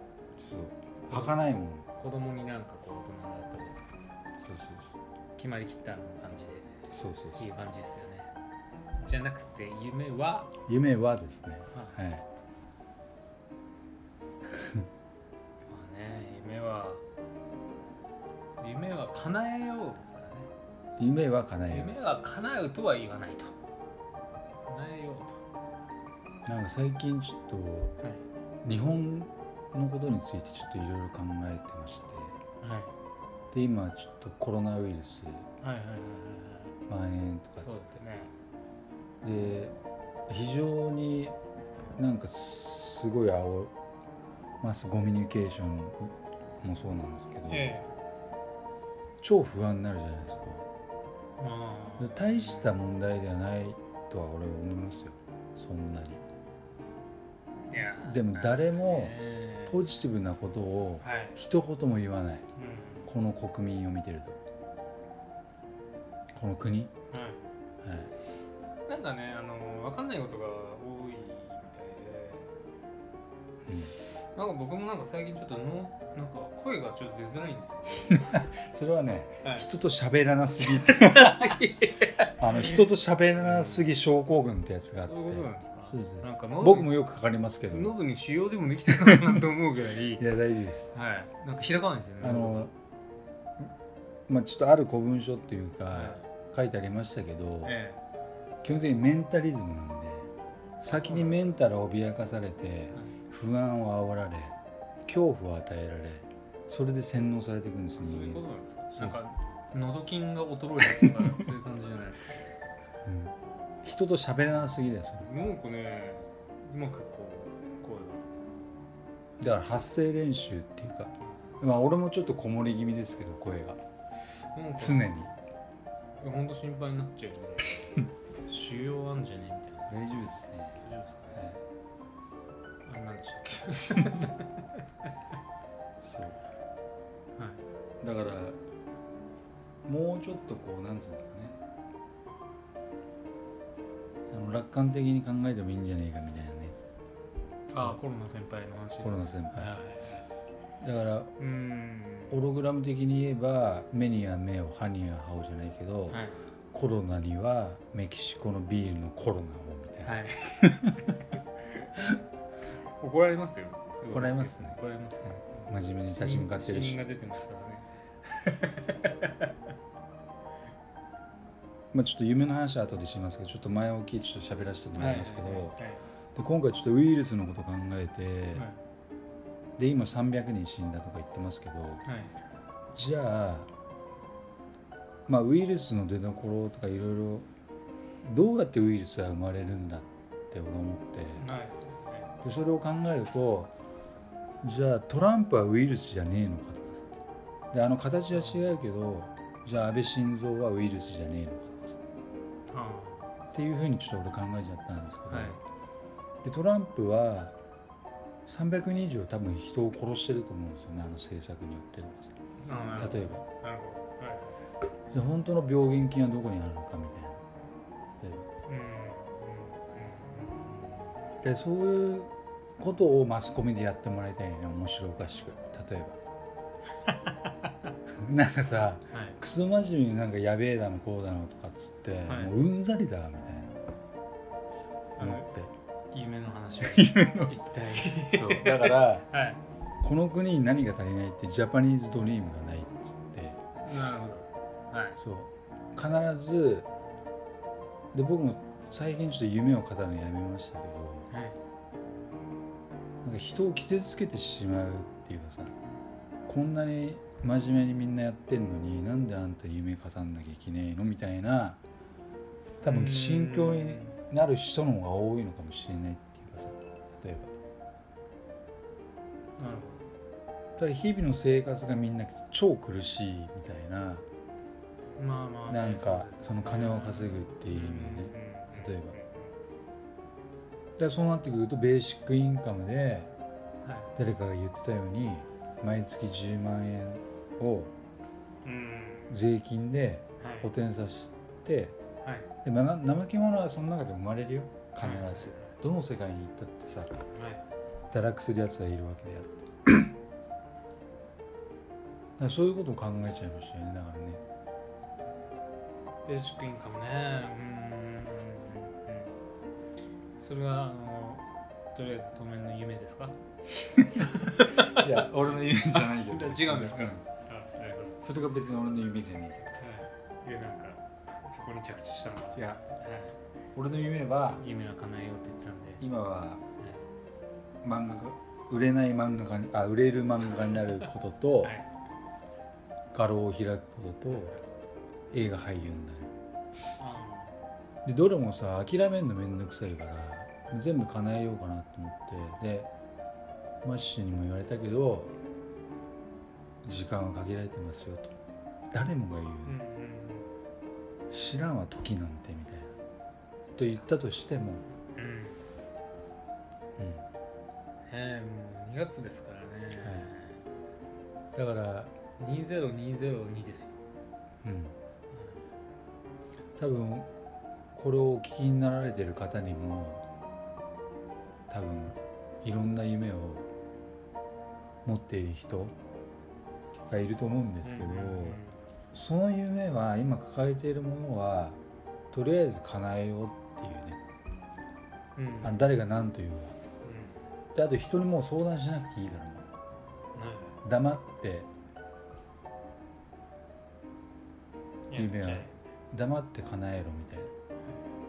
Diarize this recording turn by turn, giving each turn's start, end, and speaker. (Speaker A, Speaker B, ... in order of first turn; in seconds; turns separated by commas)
Speaker A: 0.4-1.9, Speaker B: 1.0-1.4, Speaker B: 1.9-3.8, Speaker A: 4.4-4.9, Speaker B: 5.3-6.8, Speaker A: 6.9-7.4, Speaker B: 7.3-8.3, Speaker B: 9.0-10.5, Speaker A: 10.7-12.2, Speaker B: 11.7-12.0, Speaker B: 15.7-17.0, Speaker B: 18.6-20.5, Speaker A: 21.0-22.2, Speaker B: 21.7-23.5, Speaker B: 24.6-25.4, Speaker A: 26.4-27.9, Speaker B: 28.0-28.2, Speaker A: 28.6-32.4, Speaker B: 32.6-32.9, Speaker A: 33.5-35.5, Speaker B: 35.6-36.7, Speaker A: 36.9-37.9, Speaker B: 37.6-38.3, Speaker A: 39.2-39.7, Speaker A: 40.3-41.4, Speaker A: 42.0-43.7, Speaker A: 44.6-46.1, Speaker A: 46.6-47.8, Speaker B: 47.5-47.9, Speaker A: 49.2-50.6, Speaker B: 51.4-52.8, Speaker A: 52.0-56.2, Speaker B: 57.7-59.8, Speaker A: 58.0-62.4, Speaker B: 61.0-61.4, Speaker B: 62.5-63.1, Speaker A: 63.0-64.4, Speaker A: 66.3-66.9, Speaker B: 67.1-67.4, Speaker A: 67.8-68.1, Speaker B: 68.9-72.5, Speaker A: 73.7-74.0, Speaker B: 73.9-78.5, Speaker A: 78.1-81.6, Speaker B: 80.7-82.8, Speaker A: 82.4-88.0, Speaker B: 83.4-83.9, Speaker B: 85.0-86.9, Speaker B: 87.7-90.2, Speaker A: 89.1-89.4, Speaker A: 90.2-90.9, Speaker B: 90.9-92.7, Speaker A: 92.2-92.7, Speaker A: 94.3-97.8, Speaker B: 95.9-96.2, Speaker B: 97.6-98.0, Speaker A: 98.6-100.3, Speaker B: 100.8-101.6, Speaker A: 100.8-108.4, Speaker B: 108.0-112.8, Speaker A: 113.0-115.3, Speaker B: 115.2-118.2, Speaker A: 119.4-123.8, Speaker B: 124.5-125.1, Speaker A: 124.8-125.3, Speaker B: 126.2-130.2, Speaker A: 129.9-131.6, Speaker B: 130.8-131.4, Speaker B: 132.8-134.5, Speaker A: 136.0-136.4, Speaker B: 137.4-137.6, Speaker A: 138.0-138.6, Speaker A: 139.8-141.6, Speaker A: 144.3-146.8, Speaker B: 147.7-150.3, Speaker A: 149.0-149.8, Speaker A: 150.8-151.3, Speaker B: 151.4-152.4, Speaker A: 152.3-161.2, Speaker B: 156.1-156.4, Speaker B: 160.0-160.8, Speaker B: 161.7-162.1, Speaker B: 163.0-169.5, Speaker A: 164.1-164.8, Speaker A: 165.7-167.0, Speaker A: 171.9-175.8, Speaker B: 174.9-176.1, Speaker A: 176.3-178.7, Speaker B: 178.5-178.8, Speaker A: 179.8-182.0, Speaker B: 182.0-182.3, Speaker A: 182.9-183.7, Speaker A: 185.3-187.5, Speaker A: 188.2-191.4, Speaker B: 191.4-192.3, Speaker A: 192.4-193.7, Speaker A: 194.6-197.1, Speaker A: 197.7-202.0, Speaker B: 198.3-198.7, Speaker B: 202.7-203.3, Speaker A: 203.5-205.6, Speaker B: 205.3-205.6, Speaker A: 206.4-207.5, Speaker A: 208.4-212.4, Speaker B: 212.6-214.7, Speaker A: 213.0-213.4, Speaker A: 215.1-217.4, Speaker A: 218.2-218.4, Speaker B: 218.7-221.1, Speaker A: 221.4-226.2, Speaker B: 227.1-227.7, Speaker A: 228.1-233.9, Speaker B: 229.1-229.4, Speaker B: 232.3-232.6, Speaker B: 235.2-235.5, Speaker A: 235.2-235.7, Speaker B: 236.1-239.6, Speaker A: 236.8-239.3, Speaker A: 240.0-243.6, Speaker B: 243.8-245.2, Speaker A: 245.2-246.9, Speaker A: 248.1-251.3, Speaker B: 251.3-251.6, Speaker A: 253.2-255.7, Speaker A: 256.5-261.8, Speaker A: 262.8-267.5, Speaker B: 262.8-264.2, Speaker B: 269.6-270.1, Speaker A: 270.8-274.2, Speaker B: 275.2-279.6, Speaker A: 275.7-279.2, Speaker A: 281.0-283.3, Speaker B: 283.8-284.1, Speaker A: 284.1-287.9, Speaker B: 288.6-289.4, Speaker A: 289.3-292.0, Speaker B: 290.4-290.7, Speaker B: 292.2-292.5, Speaker A: 292.6-297.1, Speaker B: 295.0-295.8, Speaker B: 297.3-297.6, Speaker A: 298.1-300.1, Speaker A: 302.4-304.4, Speaker B: 306.2-309.3, Speaker B: 310.4-313.4, Speaker B: 314.2-318.2, Speaker A: 314.7-317.2, Speaker A: 318.2-319.6, Speaker B: 319.7-323.3, Speaker A: 322.5-322.8, Speaker A: 323.7-324.6, Speaker B: 324.6-326.0, Speaker A: 326.0-326.6, Speaker B: 326.8-327.1, Speaker A: 327.8-331.7, Speaker A: 333.1-334.5, Speaker B: 334.3-334.7, Speaker A: 335.3-336.3, Speaker B: 337.0-337.5, Speaker A: 338.0-342.9, Speaker A: 343.8-345.3, Speaker A: 346.8-348.3, Speaker A: 348.9-349.8, Speaker B: 349.6-350.5, Speaker A: 351.3-352.9, Speaker A: 353.8-354.8, Speaker B: 353.8-354.1, Speaker B: 355.1-355.6, Speaker A: 357.0-357.2, Speaker B: 358.1-360.6, Speaker A: 360.0-360.3, Speaker A: 361.5-362.1, Speaker B: 362.4-364.0, Speaker A: 364.6-364.9, Speaker B: 365.3-365.6, Speaker A: 366.8-367.3, Speaker A: 367.9-370.2, Speaker A: 371.7-373.7, Speaker A: 375.0-375.9, Speaker A: 377.1-378.6, Speaker B: 377.8-378.8, Speaker A: 379.1-381.8, Speaker A: 382.3-384.2, Speaker B: 385.4-385.8, Speaker A: 385.6-386.8, Speaker B: 387.0-387.4, Speaker A: 387.7-389.7, Speaker B: 390.3-390.8, Speaker A: 390.8-391.7, Speaker B: 395.1-395.8, Speaker A: 395.1-397.5